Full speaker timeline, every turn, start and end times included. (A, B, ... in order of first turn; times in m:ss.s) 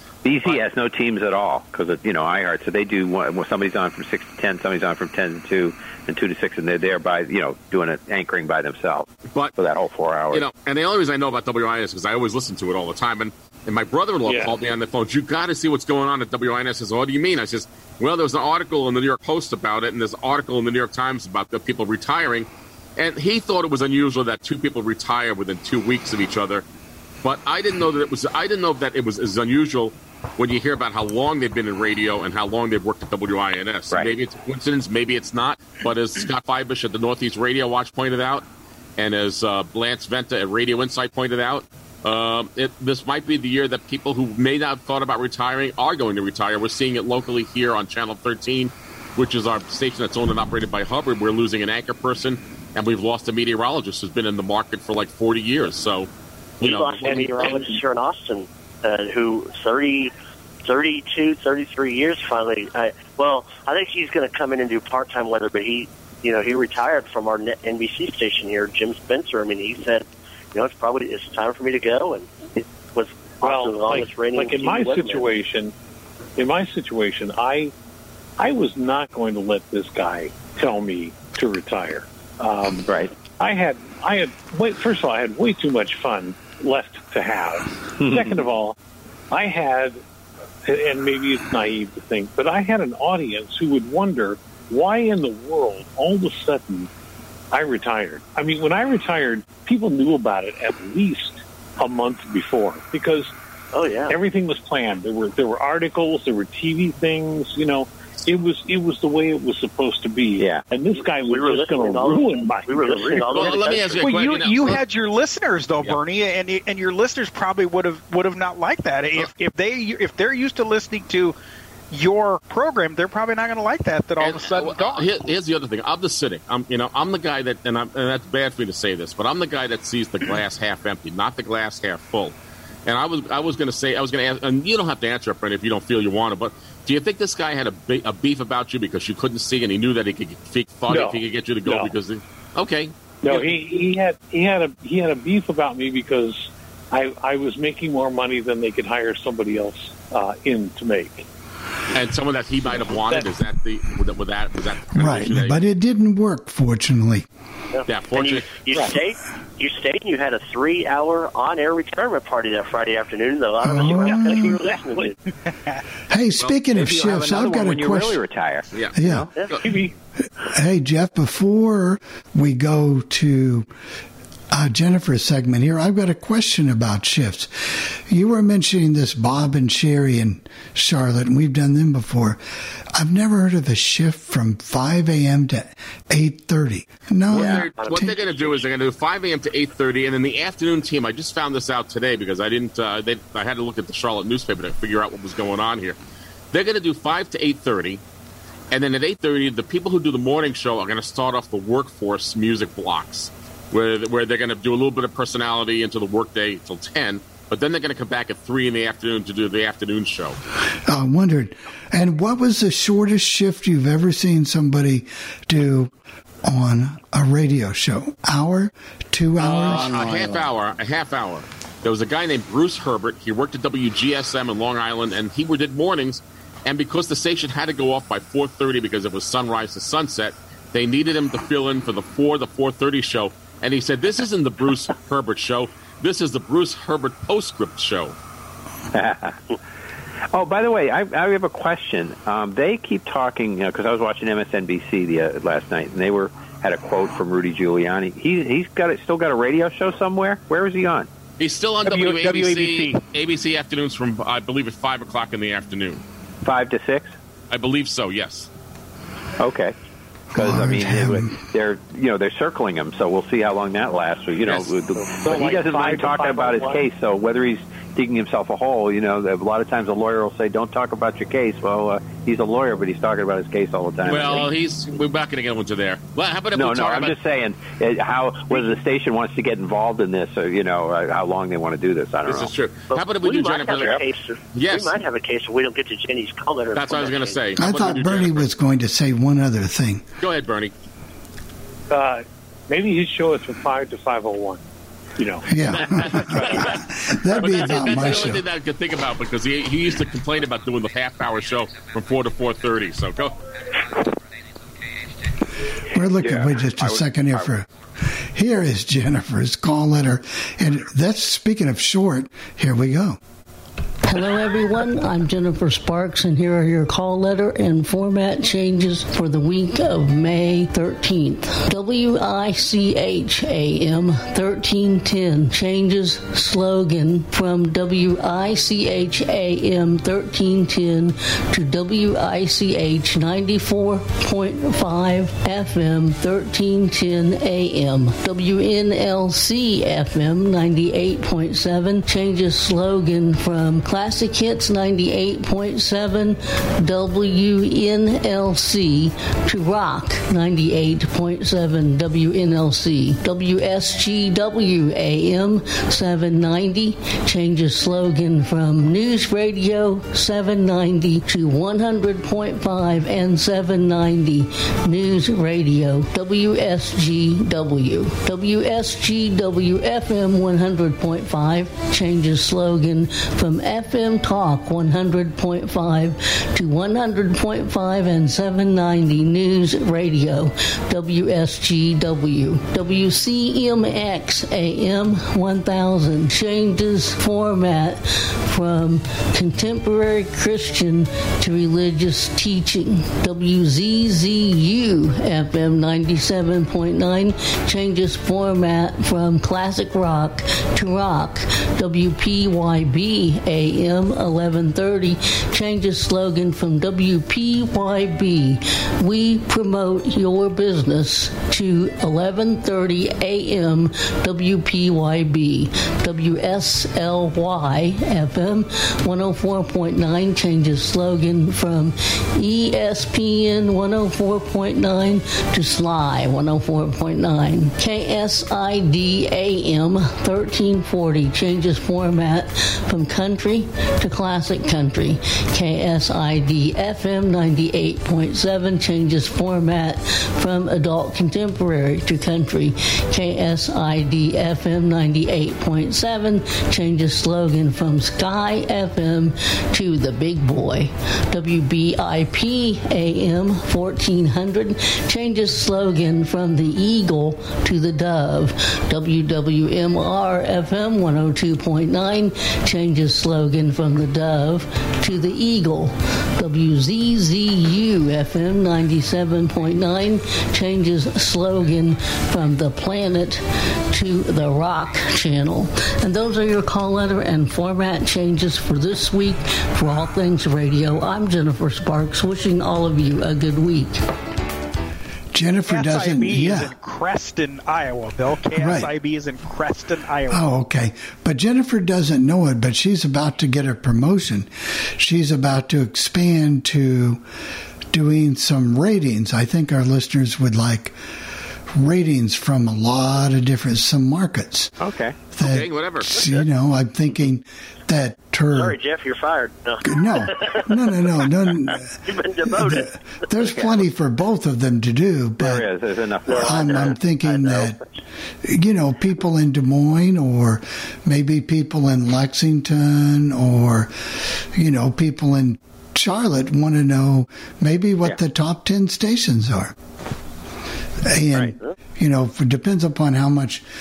0:00.2-0:10.4 A
0:09.3-0:09.6 B
0:10.3-0:26.6 B
0:14.2-0:14.5 C
0:27.2-0:38.4 B
0:39.0-0:56.1 B
0:56.6-0:57.6 B
0:56.6-1:00.1 D
0:57.0-0:57.8 C
1:00.6-1:15.3 D
1:13.4-1:15.7 C
1:16.4-1:17.7 C
1:18.4-1:28.8 C
1:22.8-1:23.1 A
1:28.0-1:28.4 A
1:29.3-1:30.0 C
1:30.6-1:36.9 C
1:37.5-1:43.3 C
1:43.7-1:44.1 D
1:44.1-1:53.2 C
1:50.4-1:50.6 A
1:50.9-1:54.1 D
1:53.3-1:54.8 B
1:54.0-2:01.4 E
2:01.9-2:05.2 E
2:04.2-2:12.3 B
2:12.8-2:23.5 B
2:20.9-2:21.9 C
2:23.2-2:31.2 C
2:31.9-2:35.6 B
2:32.7-2:33.2 C
2:34.9-2:37.2 F
2:37.7-2:45.2 D
2:37.9-2:38.9 B
2:43.6-2:44.6 F
2:46.1-2:48.2 F
2:46.7-2:49.3 A
2:48.9-2:49.3 F
2:49.5-2:49.8 B
2:49.6-2:49.9 C
2:50.5-2:53.7 F
2:54.5-3:02.4 F
3:02.9-3:08.2 F
3:07.3-3:16.0 B
3:07.4-3:07.6 A
3:07.8-3:08.6 D
3:16.5-3:18.0 B
3:18.7-3:30.4 B
3:30.9-3:35.9 F
3:36.4-3:40.4 F
3:39.4-3:58.2 B
3:58.9-3:59.4 A
4:00.3-4:11.1 A
4:11.4-4:16.0 B
4:11.8-4:13.0 E
4:16.4-4:17.1 A
4:17.5-4:18.5 B
4:19.4-4:19.7 A
4:20.3-4:21.4 F
4:20.3-4:34.5 A
4:24.4-4:24.7 B
4:25.1-4:26.9 C
4:34.0-4:37.2 B
4:36.5-4:42.5 A
4:42.2-4:44.0 B
4:42.9-4:47.4 D
4:43.8-4:44.0 A
4:44.5-4:45.0 B
4:46.7-4:48.5 B
4:47.6-4:50.0 F
4:50.2-4:50.7 B
4:51.9-4:54.6 C
4:55.2-4:55.4 C
4:55.5-4:58.4 F
4:55.7-5:03.3 B
5:05.9-5:07.7 F
5:08.3-5:13.2 F
5:14.0-7:53.4 G
7:53.9-8:04.0 G
8:05.3-8:06.7 F
8:05.6-8:10.5 E
8:08.5-8:08.9 F
8:10.3-8:17.2 F
8:17.9-8:21.0 F
8:21.7-8:24.7 F
8:24.8-8:25.2 A
8:25.3-8:28.8 F
8:25.4-8:26.1 B
8:26.2-8:26.4 D
8:28.5-8:30.6 D
8:29.8-8:31.8 F
8:32.0-8:32.9 D
8:32.4-8:35.7 F
8:35.4-8:36.9 A
8:36.3-8:37.8 D
8:36.3-8:37.8 F
8:38.4-8:43.9 F
8:44.6-8:49.7 F
8:51.0-8:53.6 F